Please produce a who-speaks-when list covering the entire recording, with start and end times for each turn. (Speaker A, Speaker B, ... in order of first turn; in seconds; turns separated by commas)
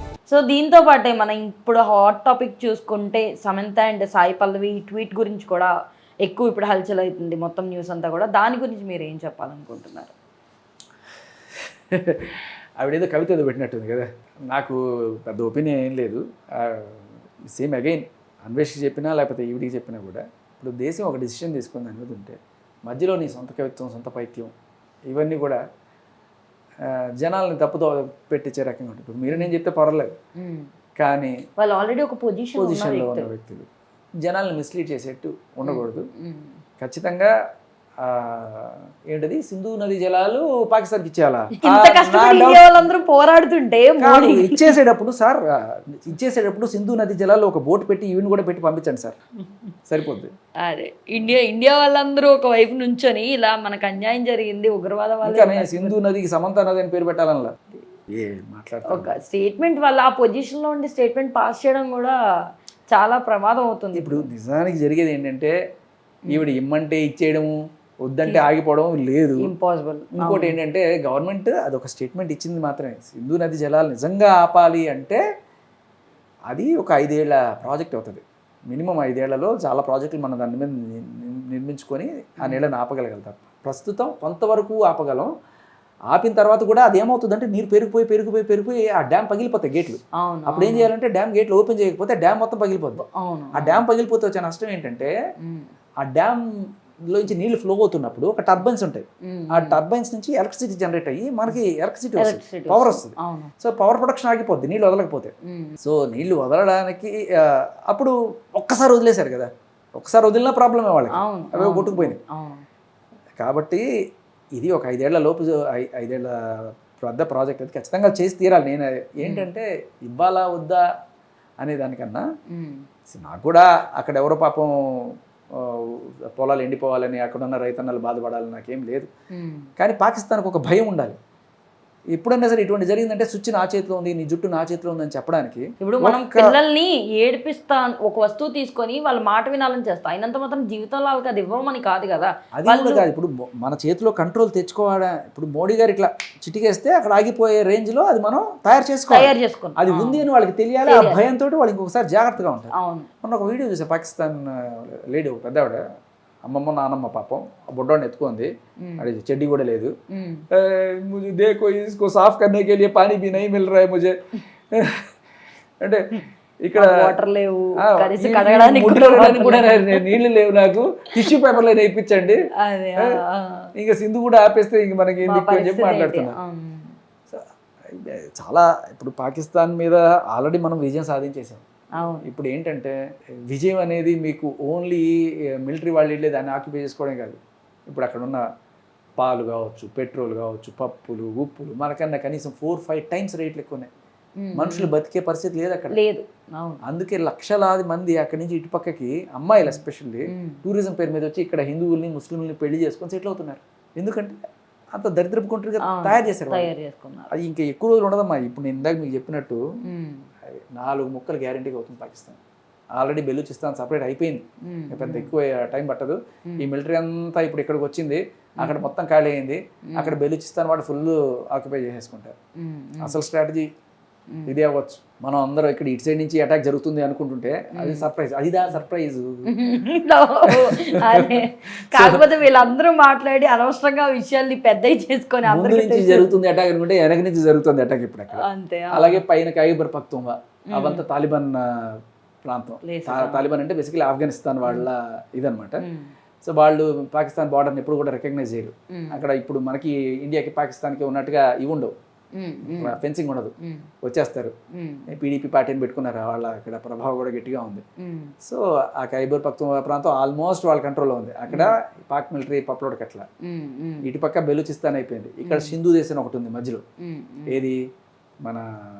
Speaker A: 0.3-5.7, Speaker A: 6.2-10.1, Speaker B: 11.9-24.5, Speaker B: 25.1-25.6, Speaker B: 26.9-30.1, Speaker A: 30.4-30.7, Speaker B: 31.0-31.4, Speaker A: 31.6-33.3, Speaker B: 32.5-33.6, Speaker B: 34.2-36.0, Speaker A: 35.6-36.6, Speaker B: 36.8-37.3, Speaker B: 38.0-42.9, Speaker A: 41.6-44.7, Speaker B: 44.0-49.1, Speaker B: 49.9-50.3, Speaker A: 50.6-56.0, Speaker B: 55.2-59.2, Speaker A: 58.9-62.1, Speaker A: 62.9-64.3, Speaker B: 63.9-65.5, Speaker A: 66.2-66.5, Speaker B: 66.3-67.5, Speaker B: 68.0-69.5, Speaker A: 68.2-68.5, Speaker A: 69.4-70.6, Speaker B: 70.1-75.2, Speaker B: 76.5-85.3, Speaker A: 82.4-82.7, Speaker B: 86.1-93.0, Speaker A: 90.2-90.9, Speaker A: 93.0-93.8, Speaker B: 93.5-95.1, Speaker A: 95.4-95.7, Speaker B: 96.0-96.4, Speaker B: 97.1-112.2, Speaker A: 99.2-99.8, Speaker A: 102.1-103.5, Speaker A: 105.5-105.8, Speaker A: 111.1-112.6, Speaker B: 113.4-113.8, Speaker B: 114.5-120.8, Speaker A: 119.2-119.5, Speaker B: 121.6-122.2, Speaker A: 122.5-122.8, Speaker B: 123.1-129.1, Speaker A: 129.3-129.7, Speaker B: 129.8-131.2, Speaker B: 132.1-136.5, Speaker A: 135.8-143.1, Speaker B: 142.6-155.8, Speaker A: 149.1-150.2, Speaker A: 150.8-151.2, Speaker A: 152.7-153.1, Speaker B: 156.4-159.9, Speaker A: 158.8-159.1, Speaker A: 160.1-160.4, Speaker B: 160.5-164.1, Speaker B: 164.7-165.1, Speaker B: 166.6-166.9, Speaker A: 166.7-170.2, Speaker B: 167.8-172.4, Speaker A: 172.6-173.7, Speaker B: 173.8-176.3, Speaker A: 175.2-176.9, Speaker B: 177.3-181.6, Speaker A: 181.9-182.3, Speaker B: 182.2-182.9, Speaker B: 183.5-185.1, Speaker B: 185.6-188.4, Speaker B: 189.2-193.9, Speaker A: 194.4-194.9, Speaker B: 194.5-195.9, Speaker A: 195.9-196.8, Speaker B: 196.8-204.3, Speaker A: 199.6-200.6, Speaker B: 204.9-206.7, Speaker A: 205.8-207.3, Speaker B: 207.3-209.6, Speaker A: 209.8-210.3, Speaker B: 210.7-212.4, Speaker B: 212.9-222.3, Speaker A: 214.6-215.3, Speaker A: 218.6-218.9, Speaker A: 219.8-220.2, Speaker A: 222.6-223.2, Speaker B: 223.0-223.7, Speaker A: 224.3-224.5, Speaker B: 224.5-229.5, Speaker A: 227.7-228.1, Speaker A: 229.4-236.3, Speaker B: 230.5-232.2, Speaker B: 235.4-241.7, Speaker A: 238.3-239.2, Speaker A: 240.7-241.0, Speaker B: 242.5-245.8, Speaker A: 242.8-243.5, Speaker A: 245.8-246.1, Speaker B: 246.4-251.9, Speaker A: 248.9-249.2, Speaker A: 252.3-253.0, Speaker B: 252.7-254.5, Speaker A: 253.6-253.9, Speaker A: 254.7-255.1, Speaker B: 255.1-257.8, Speaker A: 258.0-258.3, Speaker B: 258.4-263.2, Speaker A: 261.5-261.7, Speaker A: 263.4-264.1, Speaker B: 264.0-266.8, Speaker A: 265.4-265.8, Speaker A: 267.0-267.6, Speaker B: 267.5-267.8